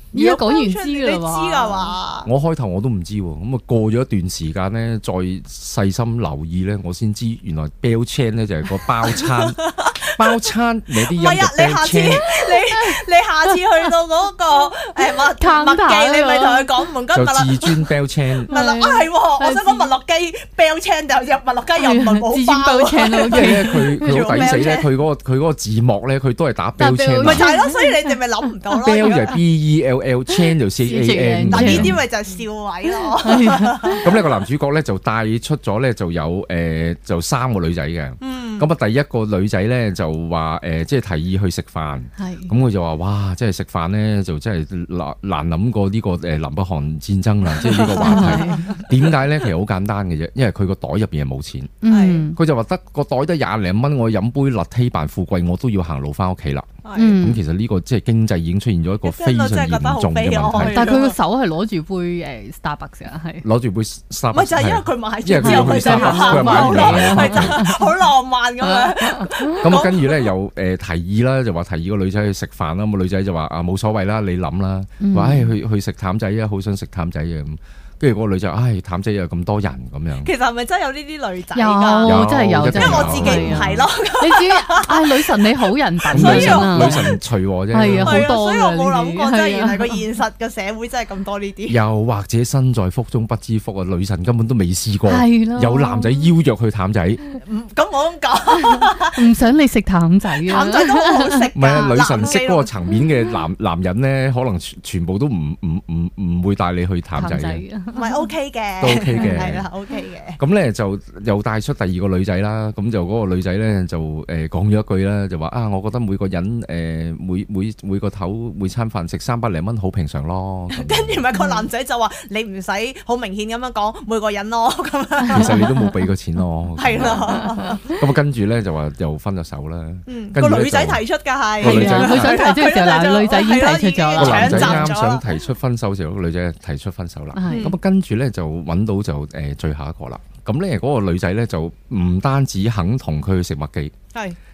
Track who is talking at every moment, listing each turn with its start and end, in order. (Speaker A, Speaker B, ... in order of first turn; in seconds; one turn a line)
Speaker A: 0.1-1.9
Speaker B: 0.1-2.3
Speaker C: 2.2-12.3
Speaker B: 9.1-10.5
Speaker B: 11.0-17.9
Speaker A: 12.5-13.0
Speaker A: 15.4-16.9
Speaker C: 17.1-18.5
Speaker A: 18.5-19.9
Speaker B: 18.5-24.9
Speaker A: 21.8-24.6
Speaker C: 23.3-27.5
Speaker A: 26.8-28.2
Speaker B: 27.2-29.4
Speaker C: 28.8-32.0
Speaker A: 30.3-32.0
Speaker B: 31.5-34.2
Speaker A: 33.0-34.0
Speaker C: 34.0-51.8
Speaker B: 38.2-38.7
Speaker A: 42.2-42.5
Speaker B: 47.5-49.1
Speaker A: 47.8-48.7
Speaker A: 51.8-52.4
Speaker B: 51.9-52.3
Speaker C: 52.4-61.0
Speaker B: 56.8-57.2
Speaker A: 57.0-57.4
Speaker B: 59.0-61.2
Speaker A: 60.6-63.5
Speaker C: 63.4-67.6
Speaker B: 64.3-70.3
Speaker A: 65.4-67.9
Speaker A: 68.6-69.5
Speaker C: 69.6-80.3
Speaker A: 75.0-75.5
Speaker B: 80.2-87.2
Speaker A: 81.5-87.2
Speaker C: 82.0-83.9
Speaker C: 86.1-88.3
Speaker A: 87.7-90.0
Speaker B: 87.9-91.8
Speaker C: 91.7-97.2
Speaker A: 95.1-96.3
Speaker B: 97.4-99.2
Speaker A: 98.7-101.5
Speaker B: 100.4-102.7
Speaker C: 101.5-107.6
Speaker A: 107.2-108.3
Speaker B: 107.9-110.4
Speaker C: 108.8-109.7
Speaker C: 110.4-121.2
Speaker B: 120.7-125.7
Speaker A: 121.3-121.7
Speaker A: 125.3-125.9
Speaker C: 125.3-131.0
Speaker B: 126.8-127.9
Speaker B: 130.1-135.3
Speaker C: 131.6-132.4
Speaker A: 131.6-134.9
Speaker C: 134.2-143.9
Speaker A: 137.4-137.8
Speaker B: 137.5-137.8